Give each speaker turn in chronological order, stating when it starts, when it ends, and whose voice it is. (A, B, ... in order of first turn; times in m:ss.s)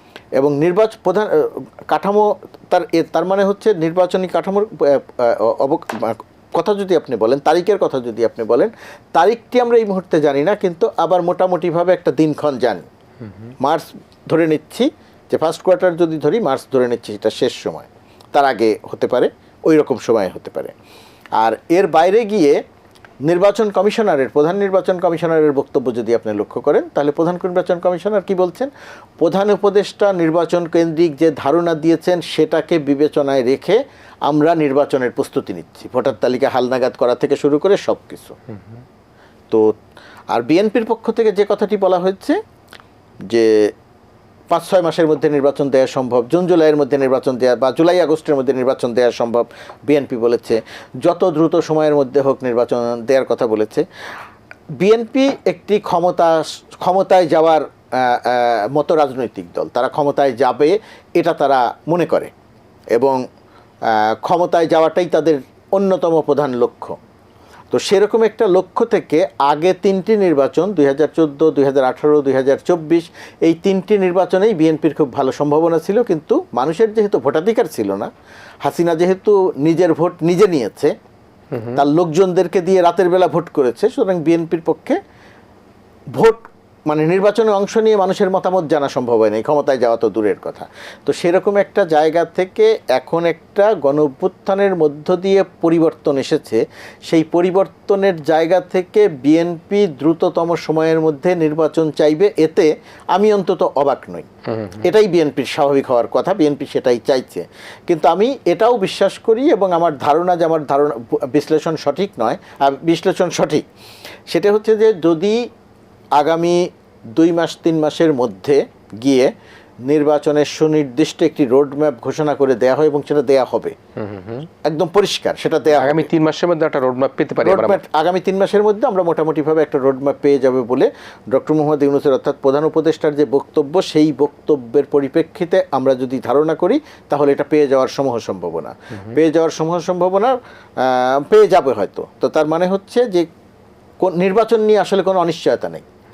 0:00.4-0:12.9 A
0:13.6-0:20.7 A
0:21.4-0:22.6 A
0:23.3-0:28.7 A
0:29.2-0:38.4 A
0:40.3-0:42.4 A
0:43.3-0:43.7 A
0:44.5-0:53.8 A
0:54.8-1:02.3 A
1:02.9-1:03.2 A
1:03.9-1:07.0 A
1:07.7-1:18.1 A
1:18.6-1:20.9 A
1:21.5-1:21.8 B
1:21.8-1:25.0 A
1:26.2-1:44.3 A
1:44.6-1:44.8 B
1:44.8-1:53.6 A
1:54.3-1:55.4 A
1:56.2-1:56.6 A
1:57.2-1:59.3 A
1:59.9-2:03.7 A
2:04.0-2:04.5 B
2:04.6-2:06.1 A
2:05.7-2:07.8 B
2:07.4-2:23.3 A
2:24.0-2:25.8 A